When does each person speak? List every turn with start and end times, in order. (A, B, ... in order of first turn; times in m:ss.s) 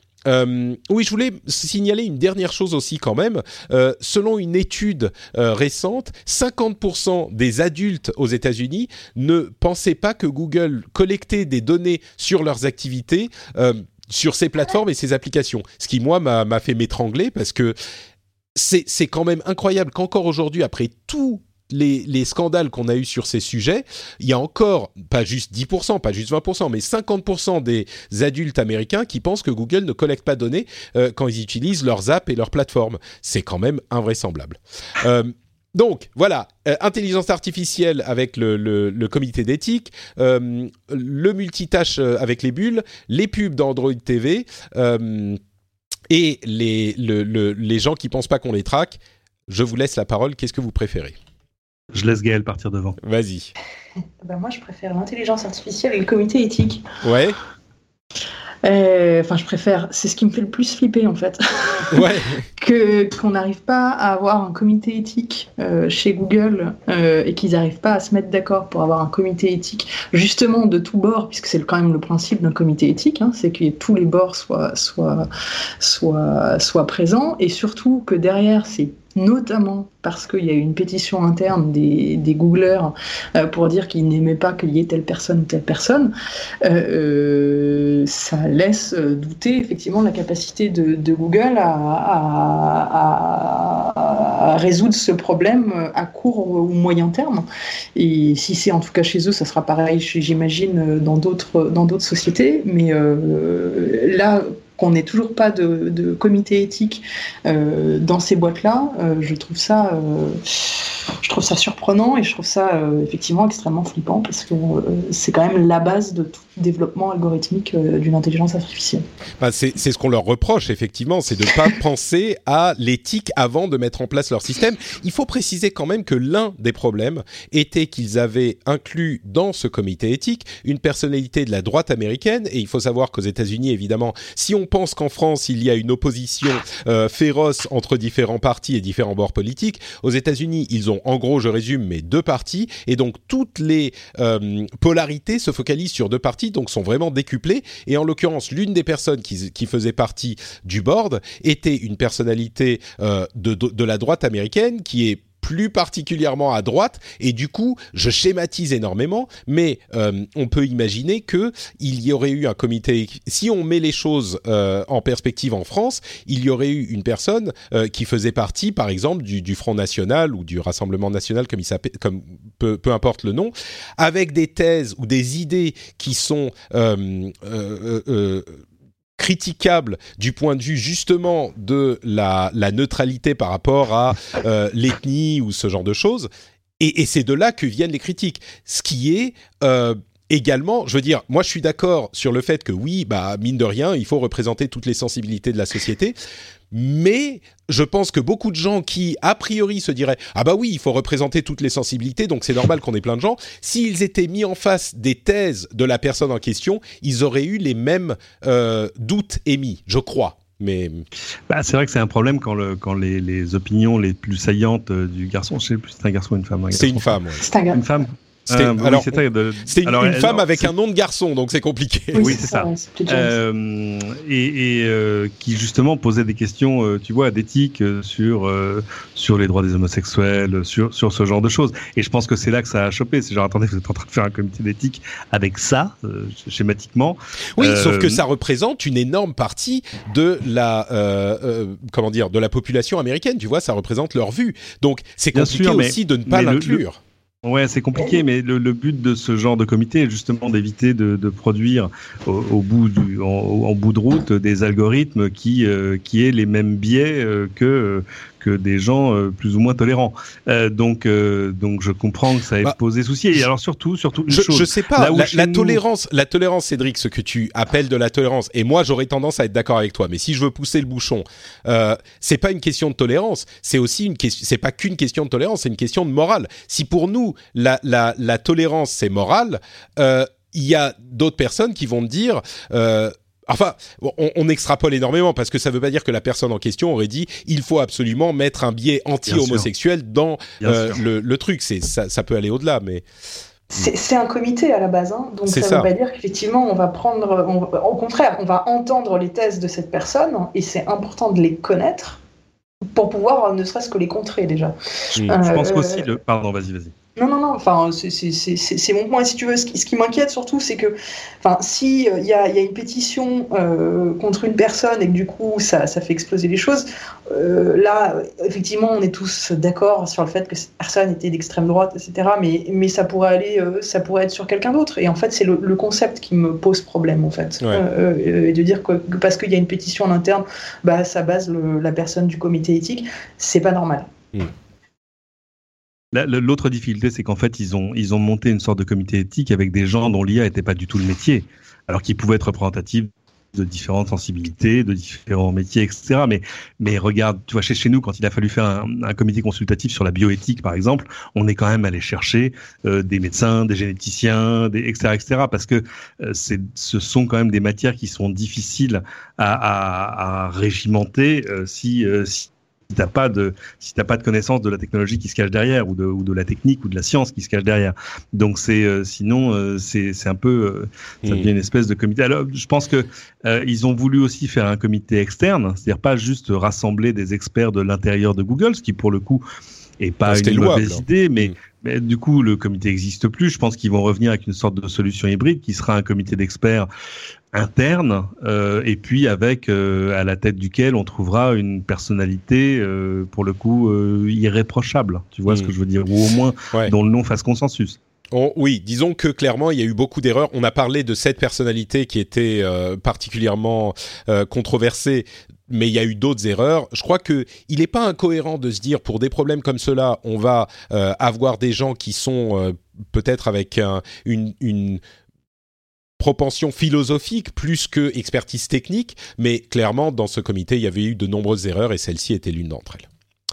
0:00.2-0:17.8 A
0:18.6-0:45.4 A
0:46.1-0:51.2 A
0:51.9-0:53.0 B
0:53.0-0:53.5 A
0:54.2-0:56.8 C
0:57.0-0:57.4 A
0:58.6-1:02.0 C
1:01.9-1:02.4 A
1:02.6-1:15.3 C
1:15.8-1:26.1 C
1:26.6-1:50.4 C
1:51.2-1:59.0 C
1:59.4-2:58.6 A
2:59.2-3:16.2 A
3:16.7-3:31.0 A
3:31.5-3:37.2 B
3:36.7-3:37.4 A
3:37.4-3:37.8 C
3:37.7-3:40.7 B
3:38.5-3:42.4 A
3:42.2-3:43.3 C
3:42.2-3:58.2 B
3:57.6-4:07.0 A
4:05.3-4:06.8 B
4:07.4-4:25.8 B
4:24.3-4:53.0 A
4:49.3-4:49.7 B
4:50.6-4:51.0 B
4:53.7-5:02.2 C
4:55.5-4:55.9 A
5:02.9-5:04.7 C
5:05.2-5:06.1 C
5:05.4-5:06.9 B
5:07.2-5:34.1 C
5:36.1-6:19.4 B
6:11.2-6:11.5 A
6:20.0-6:26.9 B
6:20.3-6:21.5 A
6:27.5-6:38.0 B
6:38.3-6:55.0 A
6:56.2-7:03.1 A